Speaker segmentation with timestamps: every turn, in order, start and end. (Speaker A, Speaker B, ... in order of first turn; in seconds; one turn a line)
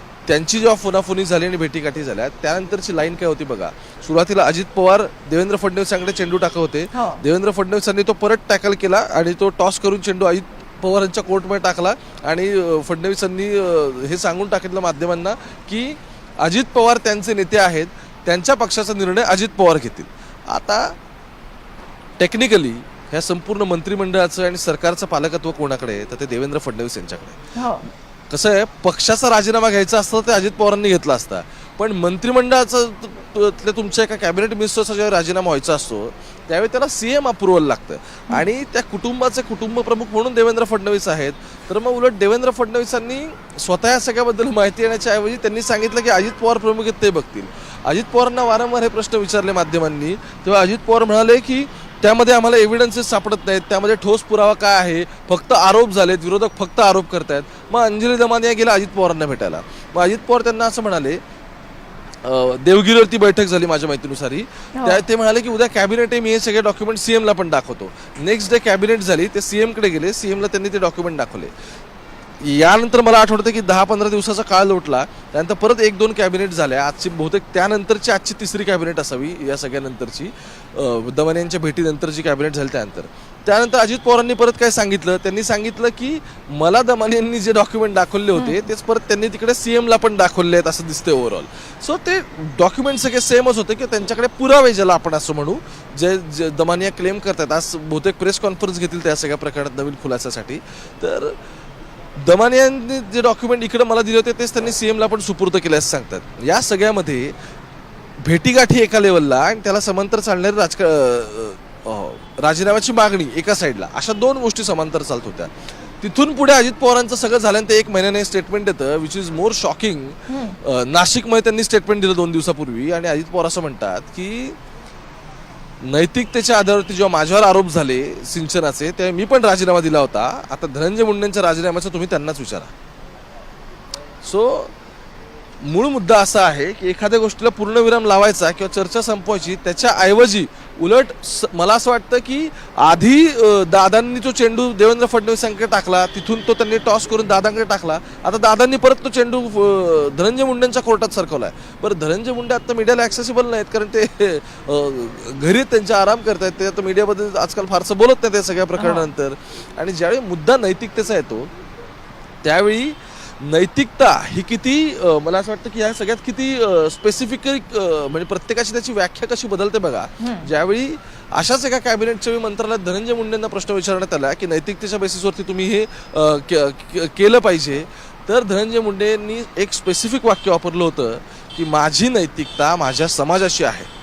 Speaker A: 0.3-20.9
Speaker B: 6.9-7.2
Speaker A: 22.2-27.4
Speaker B: 27.6-27.9
Speaker A: 28.3-61.2
Speaker A: 62.2-71.5
Speaker B: 64.8-65.0
Speaker A: 72.4-101.4
Speaker B: 88.3-88.6
Speaker A: 102.2-107.3
Speaker A: 108.2-124.6
Speaker B: 120.3-120.6
Speaker A: 125.8-132.7
Speaker A: 134.2-134.7
Speaker A: 135.6-161.5
Speaker B: 158.8-159.1
Speaker A: 162.4-183.9
Speaker B: 170.2-170.5